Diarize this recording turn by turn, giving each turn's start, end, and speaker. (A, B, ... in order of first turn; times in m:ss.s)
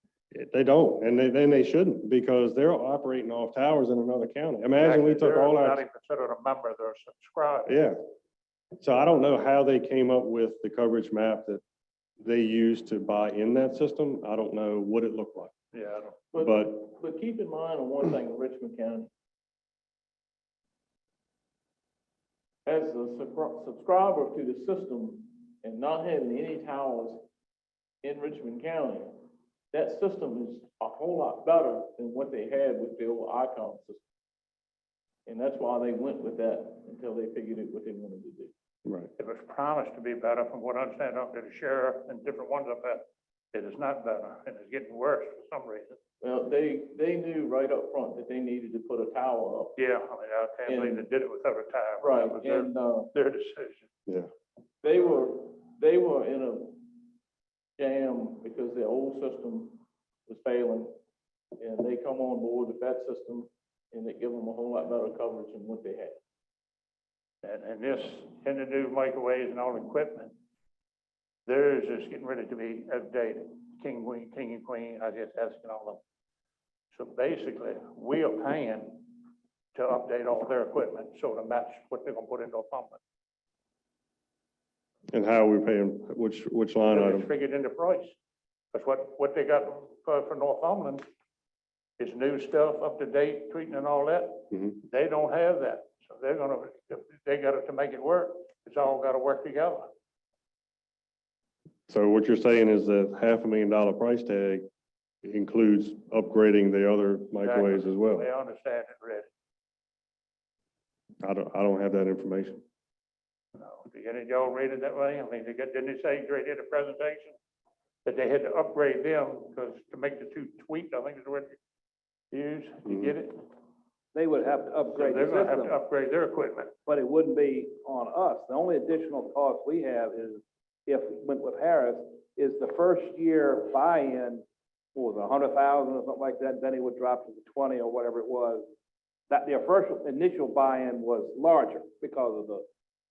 0:00.3-0:05.8 A
0:04.8-0:07.8 B
0:07.7-0:08.0 A
0:08.8-0:11.6 A
0:12.2-0:15.5 A
0:15.7-0:16.2 B
0:16.3-0:19.1 C
0:16.3-0:17.0 A
0:22.6-0:27.2 C
0:28.0-0:29.2 C
0:29.7-0:34.0 C
0:35.2-0:38.5 C
0:38.8-0:39.1 A
0:39.2-0:46.0 B
0:46.2-0:49.7 C
0:49.8-0:53.8 B
0:50.7-0:51.1 C
0:52.0-0:53.1 C
0:54.8-0:57.0 C
0:57.8-1:00.9 C
1:01.6-1:06.2 C
1:07.4-1:10.3 B
1:11.5-1:16.0 B
1:16.9-1:19.2 B
1:19.7-1:23.0 B
1:25.1-1:27.3 A
1:26.9-1:28.1 B
1:28.7-1:31.0 B
1:32.0-1:39.9 B
1:34.5-1:34.8 A
1:41.9-1:44.6 A
1:45.2-1:48.2 A
1:47.4-1:49.3 B
1:51.2-1:52.6 A
1:53.6-1:57.4 B
1:58.0-2:01.6 B
2:02.3-2:03.5 B
2:04.1-2:05.8 D
2:04.9-2:06.7 B
2:06.9-2:18.6 D
2:19.3-2:22.6 D